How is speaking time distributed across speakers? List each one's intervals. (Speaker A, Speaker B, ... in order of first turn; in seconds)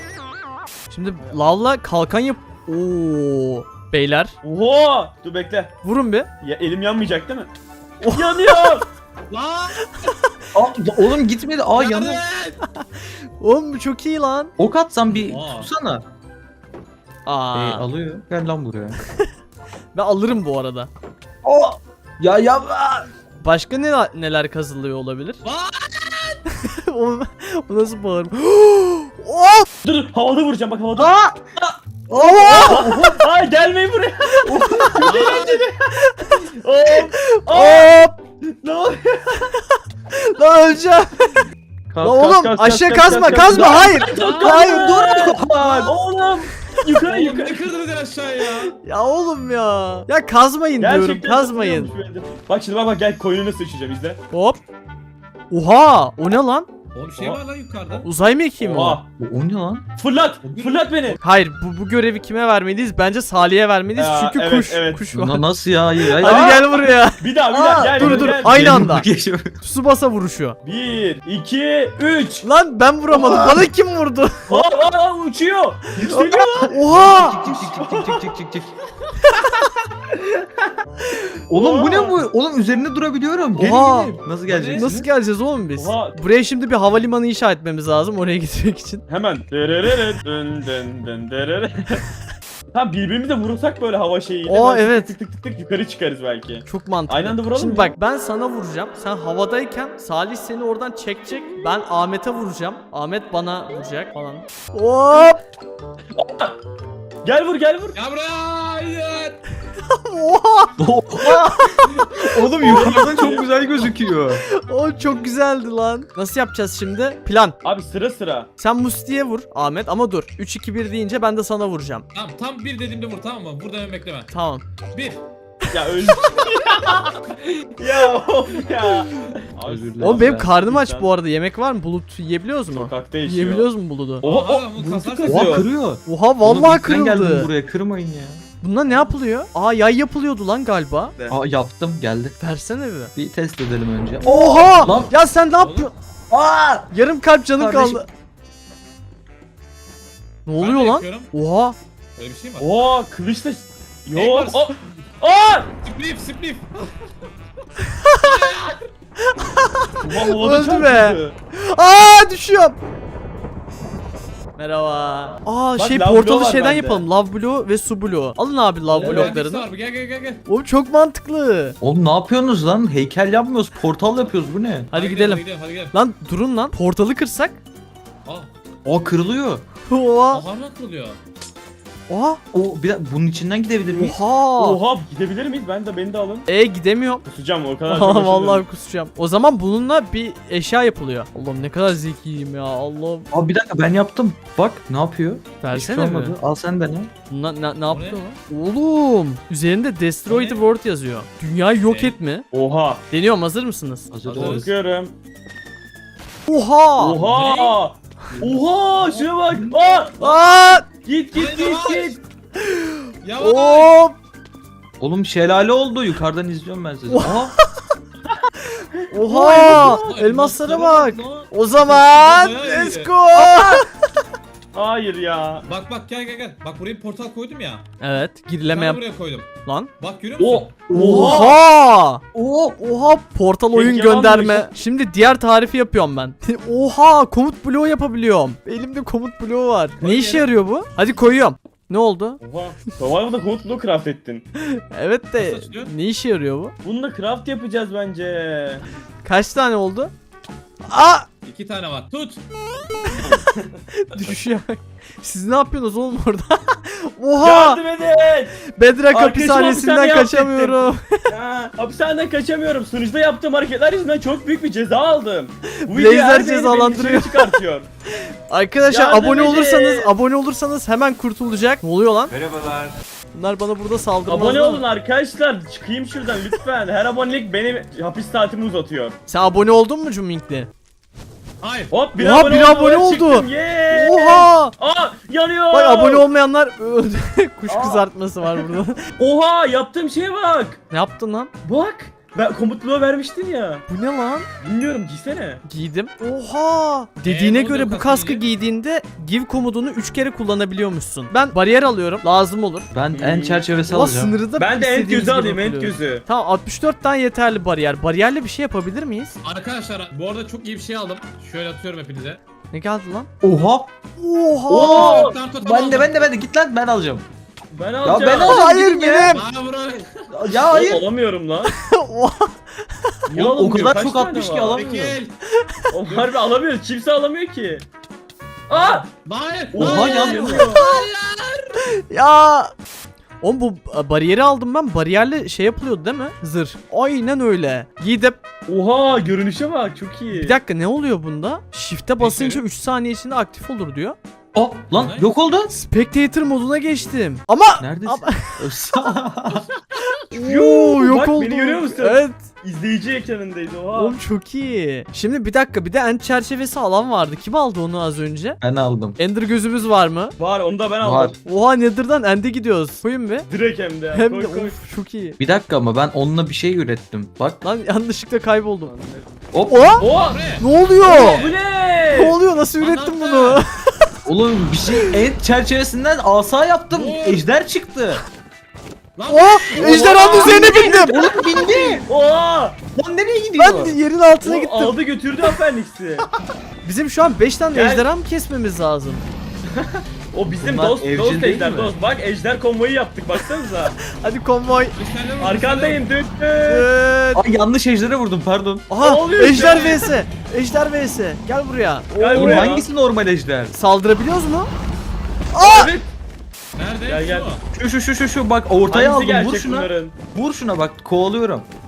Speaker A: 0.9-4.4, 5.8-6.3, 8.0-8.8, 13.4-14.5, 17.3-17.8, 19.9-20.9, 23.4-25.4, 26.6-29.7, 32.1-33.1, 34.3-35.3, 36.1-36.4, 37.1-38.2, 40.1-41.4, 42.0-45.9, 48.7-51.9, 54.3-54.6, 55.5-56.7, 58.0-59.0, 61.2-65.5, 66.2-67.2, 68.0-69.1, 69.6-70.6, 72.4-74.6, 76.7-77.4, 83.6-84.1, 84.8-89.0, 94.5-95.1, 96.7-105.4, 109.9-112.9, 114.5-117.6, 118.6-122.1, 124.3-124.7, 126.0-126.4, 130.0-134.3, 136.1-137.5, 138.6-141.2, 142.4-143.1, 144.2-145.9, 146.9-148.1, 150.5-151.8, 158.0-158.3, 159.3-162.8, 164.6-169.7, 170.5-171.8, 174.9-177.6, 179.9-180.4, 182.1-182.4, 183.9-184.8, 186.5-187.2, 187.9-193.3, 195.6-196.3, 197.3-202.4, 203.1-204.1, 206.5-207.2, 210.2-210.9, 212.6-214.2, 217.1-217.7, 219.1-223.8, 228.0-229.0, 229.7-229.9, 230.9-232.2, 232.8-242.4, 244.6-246.7, 249.2-250.1, 250.9-251.3, 253.0-253.4, 254.0-257.8, 258.7-261.2, 265.8-267.5, 268.5-272.3, 273.3-274.8, 279.3-280.7, 282.2-284.7, 285.7-289.0, 290.9-291.5, 293.9-294.5, 295.7-302.9, 303.9-309.4, 312.7-313.3, 314.2-315.3, 318.3-319.4, 321.6-322.5, 330.3-330.9, 332.1-332.7, 333.4-338.4, 340.3-344.1, 345.7-348.6, 350.3-352.5, 353.9-358.6, 359.2-360.4, 361.4-363.4, 364.1-365.4, 367.6-368.9, 369.7-370.0, 370.6-371.4, 372.1-374.2, 374.9-375.2, 379.3-381.4, 383.6-384.9, 386.8-389.2, 394.1-395.0, 396.7-397.4, 398.9-402.7, 403.7-404.7, 405.5-405.9
Speaker B: 4.4-5.7, 6.4-7.5, 8.1-8.9, 29.8-35.7, 36.4-39.4, 42.0-47.7, 50.8-54.2, 58.6-59.0, 60.0-61.2, 64.0-65.0, 66.2-68.9, 70.6-72.5, 74.5-76.7, 77.4-78.2, 80.1-80.6, 81.5-82.2, 85.8-86.2, 89.1-92.0, 92.7-98.0, 106.2-106.6, 107.2-108.0, 112.6-113.5, 117.6-118.5, 125.7-131.1, 132.7-133.7, 134.2-135.7, 152.6-155.7, 160.0-161.3, 165.8-167.1, 169.0-169.3, 184.6-186.5, 187.3-188.7, 202.5-203.0, 204.3-205.1, 207.0-212.2, 219.1-219.9, 224.7-225.6, 230.4-231.5, 233.7-234.7, 242.4-244.4, 246.8-248.8, 257.4-258.6, 259.1-267.9, 268.9-270.1, 274.2-279.2, 281.9-286.2, 287.7-288.6, 289.2-290.8, 291.6-293.9, 294.6-295.6, 303.1-303.6, 304.6-306.2, 314.7-315.4, 317.7-318.6, 320.5-321.7, 323.3-324.8, 325.9-327.9, 328.7-329.1, 329.7-330.8, 338.7-340.6, 350.3-354.2, 360.4-361.4, 363.5-364.8, 368.9-369.2, 370.0-370.4, 371.0-372.4, 380.0-382.8, 384.4-386.3, 387.7-388.1, 389.7-394.0, 395.4-396.9, 399.0-400.1, 402.1-402.9, 405.6-406.1, 407.1-407.5, 408.9-410.1
Speaker C: 9.3-9.9, 11.8-12.6, 15.1-15.7, 25.4-26.4, 35.0-35.7, 44.0-44.6, 47.0-48.7, 56.9-58.1, 60.4-61.0, 84.5-84.9, 107.9-109.4, 122.1-124.3, 124.9-125.2, 134.2-135.5, 144.8-145.9, 150.6-151.3, 152.2-152.7, 154.1-154.8, 155.8-157.0, 158.2-158.8, 168.9-170.4, 174.9-176.0, 180.3-181.2, 197.9-198.2, 200.3-200.6, 201.8-202.2, 204.3-204.7, 207.2-207.8, 209.0-209.3, 211.3-212.2, 213.2-213.9, 219.5-223.1, 225.7-227.8, 228.7-230.7, 240.0-240.5, 245.4-245.9, 251.5-252.4, 281.6-281.9, 297.2-298.4, 309.4-312.4, 314.8-316.3, 319.3-320.1, 324.7-325.4, 329.2-331.8, 342.2-342.6, 344.9-345.3, 349.5-350.1, 370.1-371.6, 372.8-373.6, 376.9-377.4, 379.1-380.6, 394.9-396.0, 406.8-407.6
Speaker D: 10.5-12.2, 14.6-16.1, 17.5-19.0, 21.4-23.1, 30.9-31.4, 32.1-33.2, 43.4-45.9, 59.2-59.9, 65.1-66.7, 67.5-69.6, 73.1-73.6, 76.2-78.7, 81.5-85.1, 110.8-114.4, 129.7-130.5, 135.2-138.4, 141.3-142.4, 143.2-145.1, 146.3-146.9, 147.5-148.0, 171.8-174.9, 178.8-179.6, 182.5-184.2, 193.3-197.1, 204.1-204.7, 215.0-217.6, 223.4-223.8, 230.9-231.6, 232.3-232.8, 302.9-304.4, 313.4-313.9, 315.6-317.2, 318.0-319.4, 320.3-321.0, 323.3-325.2, 329.8-330.7, 344.5-345.7, 347.8-349.6, 358.6-359.2, 361.0-361.4, 365.4-367.6, 369.5-370.0, 374.2-378.2, 379.8-382.1, 382.9-384.0, 390.5-391.9, 397.4-398.9, 402.3-403.7, 407.7-411.7